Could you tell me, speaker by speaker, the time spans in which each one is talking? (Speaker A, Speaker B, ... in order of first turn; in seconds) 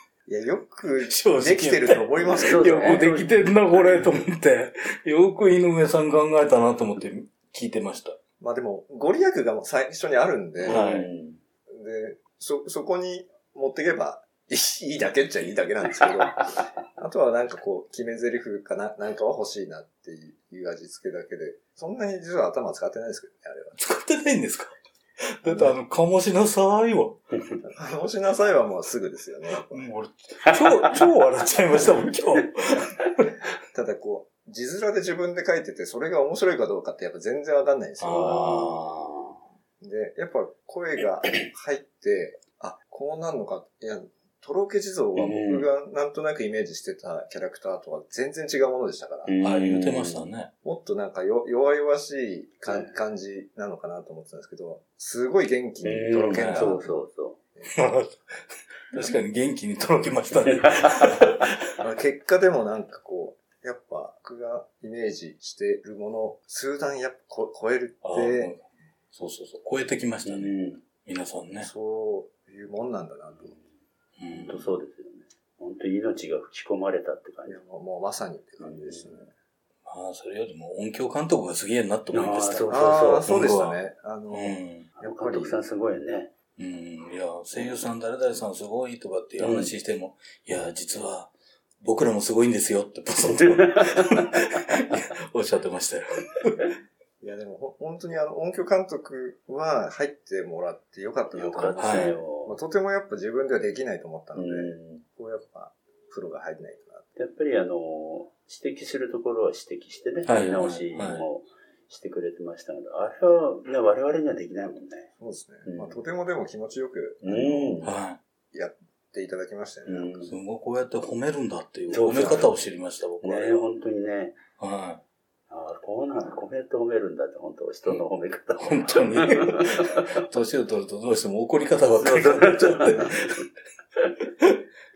Speaker A: 0.3-3.1, 8.4-10.8, 11.7-23.8, 25.5-25.8, 27.6-29.9, 33.7-38.5, 39.8-49.3, 50.6-57.0, 61.8-68.5, 71.6-73.6, 77.5-79.3, 82.7-85.6, 97.2-107.1, 115.2-117.8, 118.5-120.3
Speaker B: 1.1-8.2, 10.7-11.1, 23.8-27.2, 29.6-33.3, 38.0-39.1, 49.4-50.5, 56.3-56.7, 57.7-61.5, 68.0-71.7, 74.2-74.7, 79.8-84.9, 86.6-96.6, 101.8-102.2, 110.3-111.2, 117.8-118.2, 120.3-123.6, 124.6-125.0, 128.6-133.4
Speaker C: 2.4-3.3, 10.6-11.4, 30.4-31.0, 38.1-39.4, 45.2-45.7, 49.3-50.3, 52.7-53.0, 55.8-57.4, 70.3-70.8, 73.3-73.7, 74.4-77.6, 78.6-79.2, 82.1-83.3, 85.0-86.3, 89.4-89.7, 93.4-94.4, 101.3-102.6, 104.4-105.0, 107.2-115.1, 115.7-116.0, 117.2-117.9, 119.9-120.3, 121.9-122.5, 123.2-124.4, 125.5-130.1, 132.0-133.4